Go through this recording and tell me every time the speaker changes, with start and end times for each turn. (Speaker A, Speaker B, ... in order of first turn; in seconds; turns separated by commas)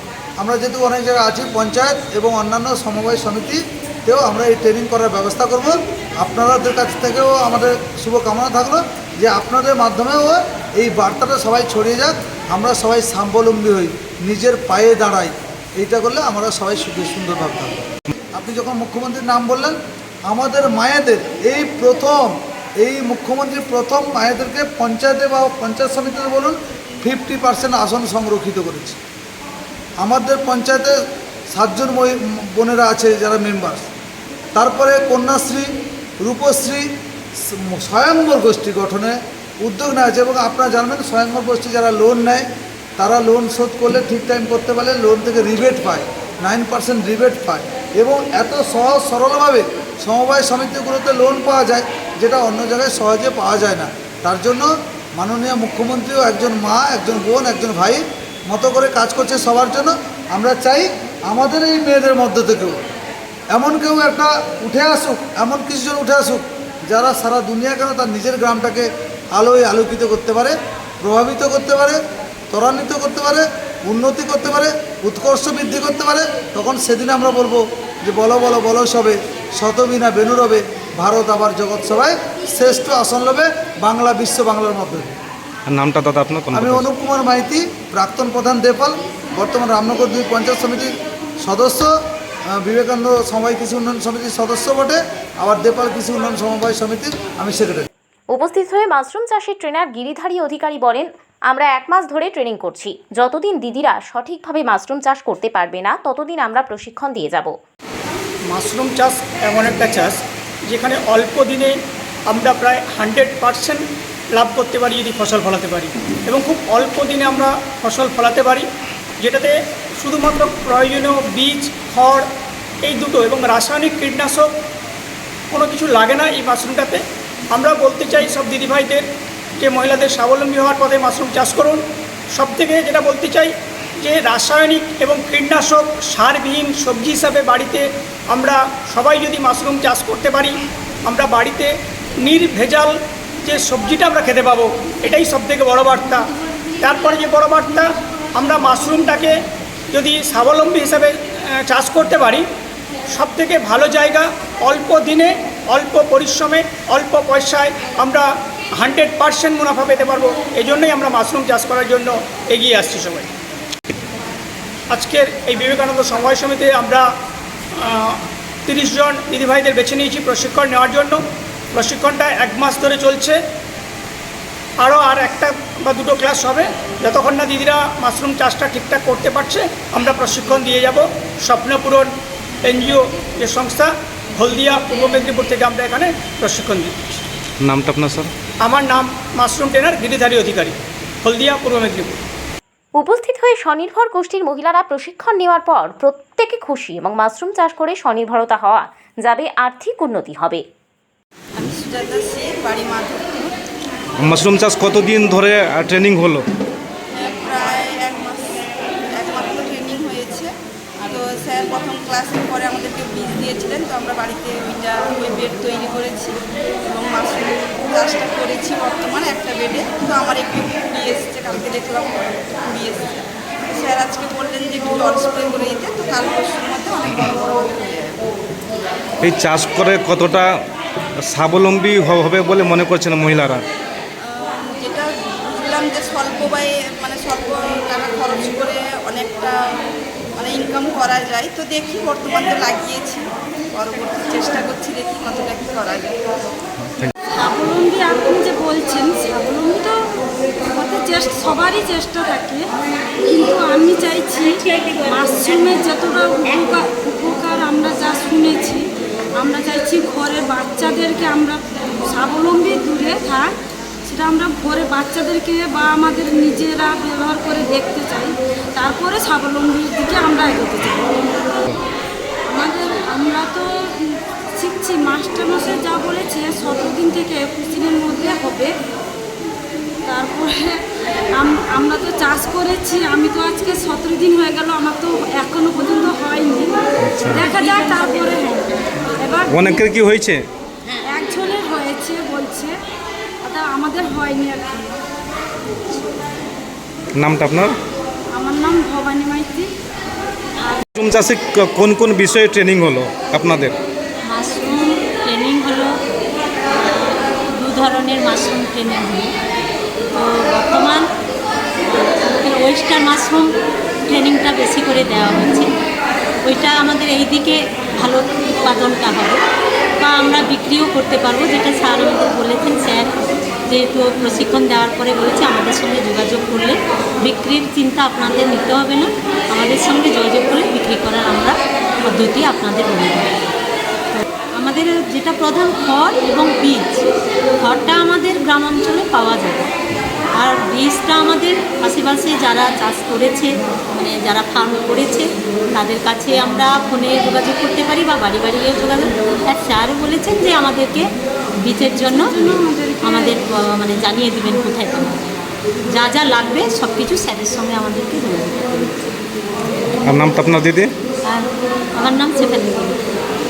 Speaker A: 0.4-17.8, Speaker A: 18.3-29.0, Speaker A: 30.0-30.9, Speaker A: 31.5-33.9, Speaker A: 34.6-35.7, Speaker A: 36.2-36.9, Speaker A: 37.5-42.5, Speaker A: 43.0-62.8, Speaker A: 63.5-72.0, Speaker A: 72.5-85.1, Speaker B: 85.7-86.8, Speaker A: 86.5-91.9, Speaker A: 92.5-97.9, Speaker C: 98.3-107.5, Speaker D: 108.5-111.8, Speaker D: 112.3-118.7, Speaker D: 119.2-122.3, Speaker D: 122.8-124.5, Speaker D: 125.5-129.1, Speaker D: 129.6-131.8, Speaker D: 132.3-141.7, Speaker D: 142.2-146.3, Speaker D: 146.8-149.4, Speaker D: 149.9-152.4, Speaker D: 153.1-163.3, Speaker D: 164.9-167.1, Speaker D: 167.7-171.2, Speaker D: 171.7-173.4, Speaker D: 174.8-182.1, Speaker D: 182.7-186.9, Speaker B: 187.6-188.3, Speaker D: 188.6-192.2, Speaker C: 193.0-200.6, Speaker E: 201.6-203.5, Speaker B: 204.2-206.5, Speaker E: 207.1-210.5, Speaker E: 211.1-228.2, Speaker B: 229.2-230.5, Speaker B: 231.3-233.7, Speaker E: 234.2-239.6, Speaker E: 240.4-246.2, Speaker B: 246.8-247.1, Speaker F: 247.3-250.0, Speaker F: 250.7-252.6, Speaker F: 253.2-258.8, Speaker G: 254.3-255.8, Speaker F: 259.4-263.5, Speaker F: 264.1-271.2, Speaker F: 272.5-278.7, Speaker F: 280.1-280.8, Speaker F: 281.3-289.9, Speaker B: 287.0-287.5, Speaker G: 287.3-288.5, Speaker B: 289.5-290.4, Speaker F: 291.0-292.8, Speaker F: 293.4-295.0, Speaker B: 297.2-297.8, Speaker F: 298.3-299.7, Speaker B: 301.0-303.8, Speaker G: 304.2-305.9, Speaker G: 306.7-309.3, Speaker G: 310.1-311.1, Speaker G: 311.9-313.5, Speaker G: 314.1-315.7, Speaker G: 316.4-319.4, Speaker G: 320.0-323.2, Speaker G: 323.7-333.3, Speaker G: 334.1-337.1, Speaker G: 337.6-339.7, Speaker G: 340.4-351.1, Speaker G: 351.6-352.5, Speaker F: 352.1-353.4, Speaker G: 353.0-355.2, Speaker G: 355.9-359.1, Speaker B: 360.1-360.9, Speaker G: 361.2-363.0